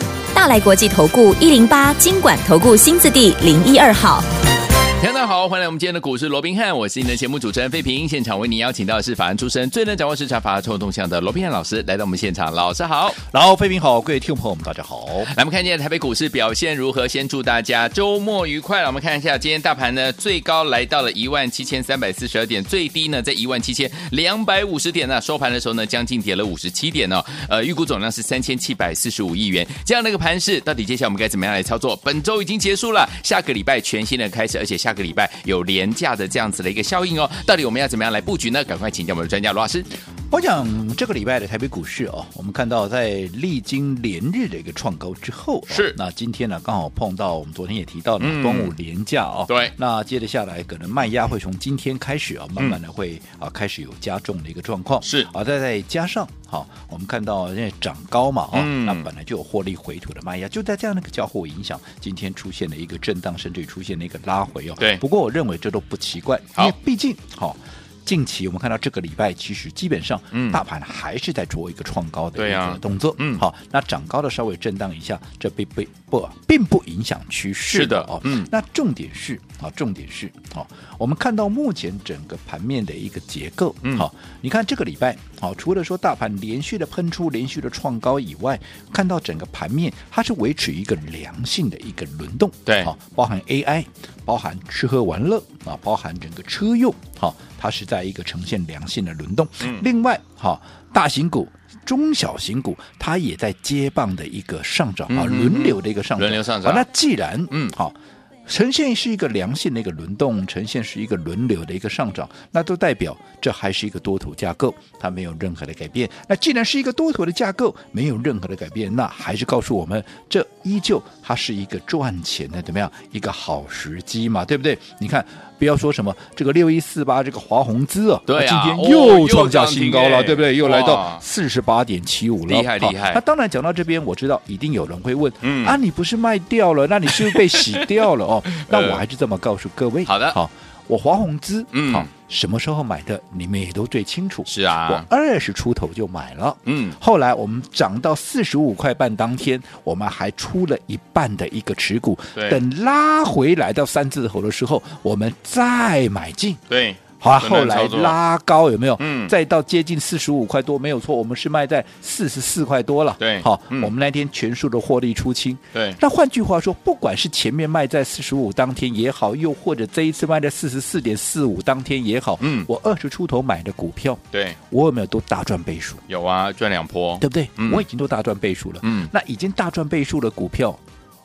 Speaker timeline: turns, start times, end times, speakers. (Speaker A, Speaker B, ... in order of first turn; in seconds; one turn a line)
Speaker A: 0.3-4.2
Speaker B: 5.0-13.2
Speaker C: 13.2-15.3
Speaker B: 15.2-39.9
Speaker C: 40.3-156.6
Speaker B: 45.7-46.0
Speaker B: 48.2-48.7
Speaker B: 49.5-49.7
Speaker B: 55.0-55.3
Speaker B: 58.5-59.0
Speaker B: 70.3-70.6
Speaker B: 72.3-73.4
Speaker B: 77.7-78.5
Speaker B: 105.1-106.8
Speaker B: 128.3-131.2
Speaker B: 132.5-133.2
Speaker B: 135.4-135.8
Speaker B: 137.1-137.9
Speaker B: 138.5-139.0
Speaker B: 140.1-140.4
Speaker B: 141.7-142.1
Speaker B: 144.5-145.1
Speaker B: 146.7-147.0
Speaker B: 156.7-158.2
Speaker C: 157.2-176.0
Speaker B: 159.0-159.3
Speaker B: 163.2-163.9
Speaker B: 165.7-166.0
Speaker B: 172.4-172.7
Speaker B: 174.3-174.6
Speaker B: 176.1-177.8
Speaker C: 177.2-180.8
Speaker B: 178.8-179.1